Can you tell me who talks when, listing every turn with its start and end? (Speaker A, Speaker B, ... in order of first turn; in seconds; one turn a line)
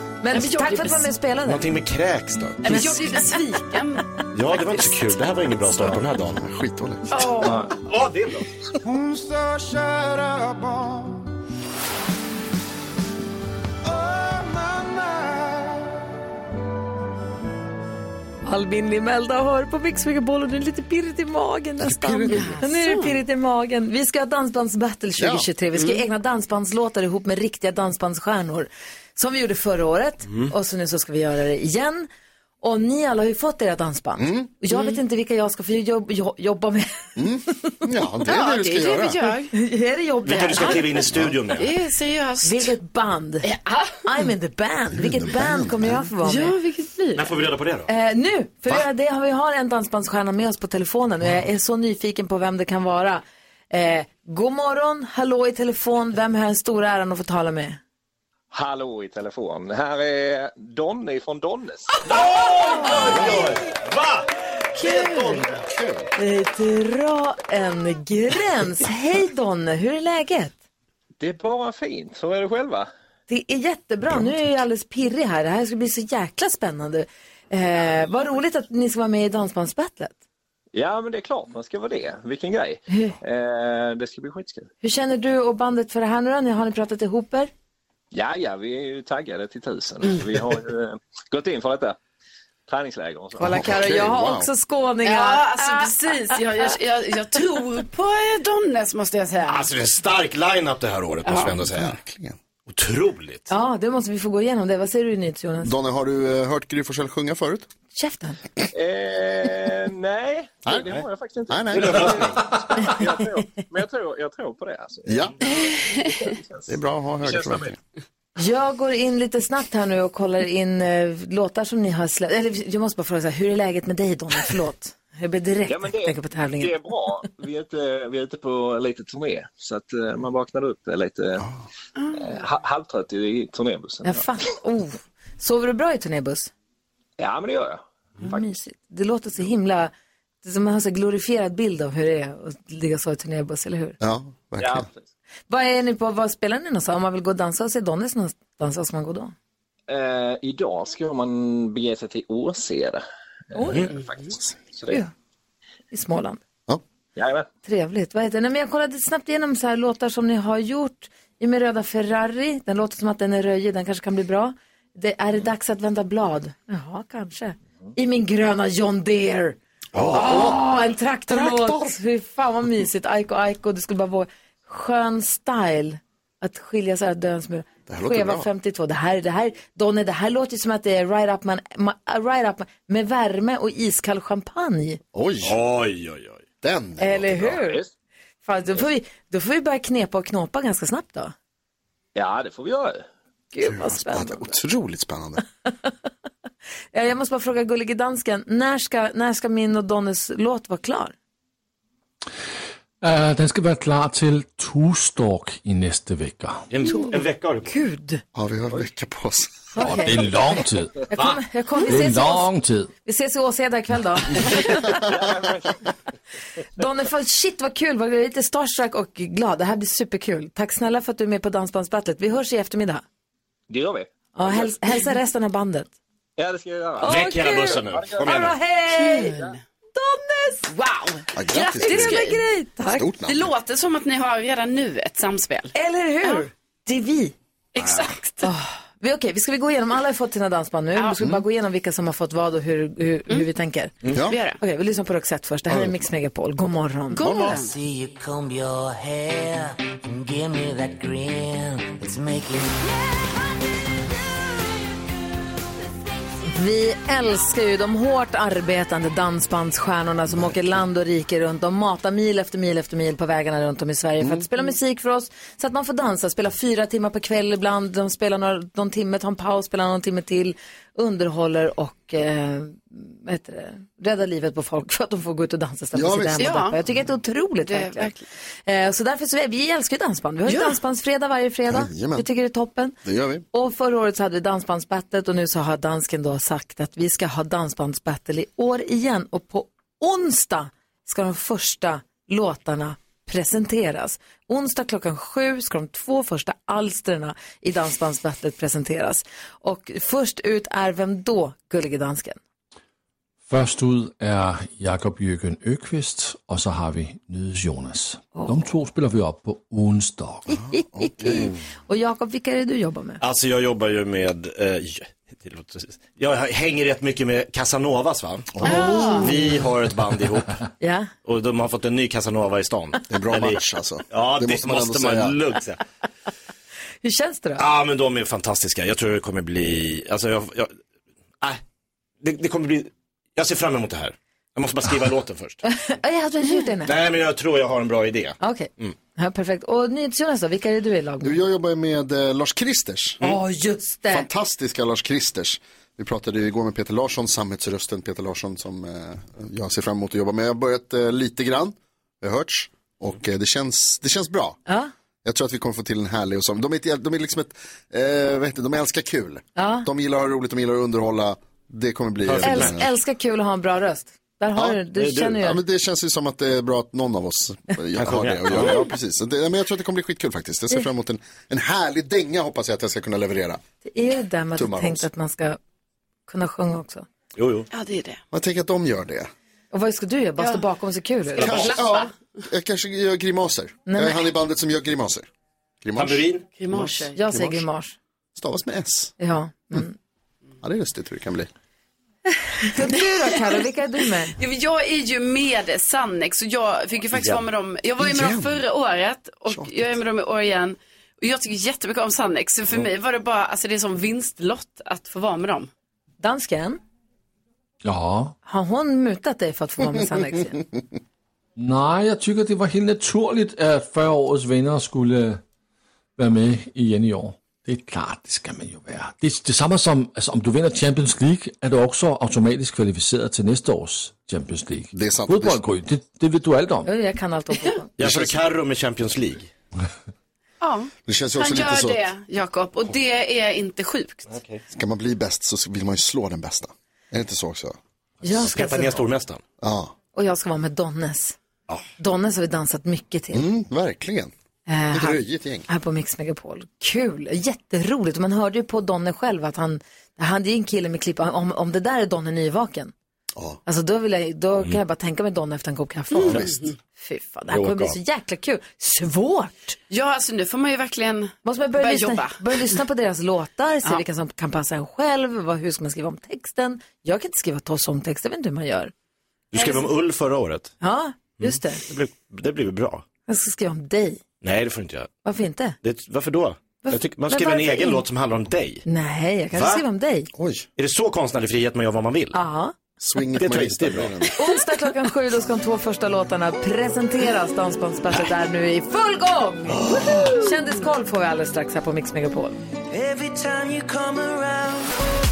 Speaker A: 0.2-1.7
Speaker B: 0.3-1.1
Speaker C: 1.5-2.9
Speaker B: 2.6-5.0
Speaker A: 2.7-3.5
Speaker C: 4.3-6.4
Speaker D: 5.7-7.3
Speaker B: 7.1-7.7
Speaker E: 7.4-7.7
Speaker C: 7.8-8.5
Speaker F: 8.9-11.0
Speaker F: 14.1-15.3
Speaker A: 18.5-32.1
Speaker D: 21.8-22.6
Speaker B: 22.3-23.1
Speaker D: 25.2-25.5
Speaker A: 32.6-37.0
Speaker D: 34.2-34.5
Speaker B: 34.7-35.0
Speaker D: 37.2-39.2
Speaker B: 38.3-39.5
Speaker A: 39.5-40.8
Speaker C: 40.2-41.7
Speaker B: 40.3-41.0
Speaker D: 41.1-41.4
Speaker B: 41.5-42.7
Speaker A: 42.4-43.5
Speaker B: 43.4-44.0
Speaker A: 44.0-46.5
Speaker D: 44.9-46.1
Speaker B: 46.2-47.3
Speaker C: 47.2-47.9
Speaker A: 47.9-57.8
Speaker G: 58.5-62.0
Speaker C: 62.0-65.7
Speaker A: 62.9-63.2
Speaker D: 62.9-63.5
Speaker A: 64.8-65.5
Speaker D: 65.5-66.1
Speaker A: 66.2-70.5
Speaker G: 71.2-72.9
Speaker A: 73.3-80.1
Speaker G: 80.8-84.7
Speaker A: 82.9-83.2
Speaker A: 84.8-87.5
Speaker G: 88.1-92.0
Speaker G: 92.7-93.8
Speaker A: 93.4-96.6
Speaker D: 93.4-94.5
Speaker B: 95.0-99.7
Speaker C: 99.5-102.0
Speaker B: 101.2-101.5
Speaker D: 101.5-102.4
Speaker C: 102.7-103.5
Speaker A: 103.5-105.7
Speaker D: 105.6-107.7
Speaker A: 108.0-108.4
Speaker G: 108.7-117.7
Speaker D: 110.7-112.4
Speaker C: 111.8-112.4
Speaker D: 115.1-115.3
Speaker D: 116.7-117.8
Speaker A: 118.4-126.8
Speaker G: 125.7-131.5
Speaker B: 132.0-132.3
Speaker G: 132.1-134.3
Speaker A: 134.0-136.5
Speaker G: 137.2-138.5
Speaker A: 138.2-139.9
Speaker A: 140.4-144.0
Speaker D: 144.0-144.9
Speaker G: 144.6-145.0
Speaker A: 145.5-149.3
Speaker G: 149.9-155.0
Speaker A: 153.5-153.9
Speaker A: 155.9-156.4
Speaker G: 157.2-157.5
Speaker A: 157.6-185.0
Speaker D: 169.9-170.6
Speaker D: 171.3-171.9
Speaker D: 177.9-178.5
Speaker D: 185.1-185.6
Speaker C: 185.4-186.4
Speaker D: 186.6-187.6
Speaker A: 187.0-187.8
Speaker G: 187.6-187.9
Speaker A: 188.4-191.3
Speaker G: 192.2-193.1
Speaker A: 193.5-194.5
Speaker D: 193.6-195.4
Speaker A: 196.9-201.1
Speaker E: 203.0-206.7
Speaker C: 206.7-207.7
Speaker A: 207.7-208.2
Speaker D: 208.3-209.7
Speaker A: 209.7-210.6
Speaker E: 209.8-211.4
Speaker A: 211.1-212.5
Speaker E: 211.9-212.9
Speaker A: 213.1-215.1
Speaker G: 214.9-215.9
Speaker A: 216.8-223.0
Speaker G: 223.7-225.0
Speaker A: 224.3-225.9
Speaker G: 226.4-227.3
Speaker A: 227.0-229.4
Speaker C: 227.0-228.6
Speaker G: 227.8-228.6
Speaker B: 228.9-229.6
Speaker A: 230.0-230.7
Speaker B: 230.7-232.4
Speaker D: 231.3-232.3
Speaker A: 231.5-233.1
Speaker D: 232.9-233.5
Speaker B: 233.3-235.7
Speaker A: 235.7-237.3
Speaker B: 237.8-238.5
Speaker A: 238.4-244.0
Speaker D: 241.2-241.4
Speaker B: 244.1-244.6
Speaker D: 244.1-244.4
Speaker A: 244.6-247.4
Speaker B: 247.1-247.8
Speaker D: 247.2-247.6
Speaker F: 247.5-252.8
Speaker A: 256.4-278.1
Speaker D: 275.9-276.5
Speaker B: 276.4-276.8
Speaker B: 277.7-278.3
Speaker A: 278.7-283.0
Speaker B: 280.5-280.8
Speaker D: 281.7-282.3
Speaker D: 283.0-283.4
Speaker A: 283.5-302.4
Speaker E: 303.5-310.6
Speaker D: 310.5-311.5
Speaker A: 310.7-313.2
Speaker C: 313.2-320.6
Speaker D: 318.5-319.3
Speaker B: 318.6-319.3
Speaker A: 318.6-319.4
Speaker A: 320.8-321.1
Speaker C: 321.2-323.6
Speaker D: 323.1-325.4
Speaker C: 324.1-325.8
Speaker A: 327.0-327.6
Speaker C: 327.6-330.8
Speaker C: 332.2-335.6
Speaker A: 335.6-336.9
Speaker C: 336.8-338.9
Speaker A: 338.4-341.4
Speaker D: 341.2-343.2
Speaker A: 343.2-344.3
Speaker D: 344.1-354.6
Speaker D: 355.2-362.9
Speaker A: 359.6-359.9
Speaker C: 362.2-362.8
Speaker A: 362.4-365.6
Speaker C: 364.9-365.4
Speaker D: 365.4-373.6
Speaker C: 368.0-368.9
Speaker A: 373.8-375.6
Speaker D: 374.6-375.1
Speaker A: 376.3-377.1
Speaker C: 377.4-377.7
Speaker B: 377.7-378.2
Speaker D: 378.3-379.3
Speaker A: 379.7-381.5
Speaker B: 381.3-382.1
Speaker D: 381.4-385.3
Speaker A: 383.9-384.3
Speaker D: 385.8-387.6
Speaker C: 386.0-386.4
Speaker B: 386.6-387.2
Speaker A: 387.1-388.0
Speaker D: 388.4-389.1
Speaker A: 389.2-390.0
Speaker D: 390.6-391.5
Speaker A: 392.6-394.4
Speaker B: 394.4-405.7
Speaker C: 397.1-397.4
Speaker D: 398.0-398.6
Speaker D: 399.5-400.0
Speaker A: 406.2-406.8
Speaker E: 407.8-408.4
Speaker A: 408.4-410.6
Speaker E: 411.6-415.4
Speaker E: 416.2-426.9
Speaker D: 424.9-425.6
Speaker A: 426.9-427.9
Speaker C: 428.0-429.5
Speaker D: 428.0-428.4
Speaker B: 430.6-434.3
Speaker D: 431.1-432.0
Speaker C: 434.3-434.6
Speaker D: 434.7-437.8
Speaker A: 438.2-439.0
Speaker C: 438.3-439.4
Speaker D: 439.6-439.9
Speaker A: 440.1-441.4
Speaker A: 442.0-443.5
Speaker D: 443.3-444.3
Speaker A: 444.7-452.9
Speaker D: 444.9-445.7
Speaker D: 453.4-453.6
Speaker A: 453.7-459.8
Speaker B: 456.1-456.5
Speaker D: 456.3-456.6
Speaker C: 457.5-457.9
Speaker B: 459.9-462.8
Speaker A: 461.4-468.9
Speaker C: 469.5-470.7
Speaker B: 469.6-469.9
Speaker A: 470.8-471.8
Speaker C: 471.4-473.1
Speaker A: 473.3-474.2
Speaker C: 474.4-475.1
Speaker A: 475.2-475.8
Speaker C: 475.8-478.8
Speaker A: 476.8-478.0
Speaker A: 478.9-480.3
Speaker C: 479.5-479.8
Speaker D: 480.3-480.7
Speaker C: 480.8-482.4
Speaker A: 482.3-482.7
Speaker D: 483.0-484.3
Speaker C: 483.4-484.1
Speaker A: 484.4-492.6
Speaker D: 489.9-490.3
Speaker F: 492.9-494.9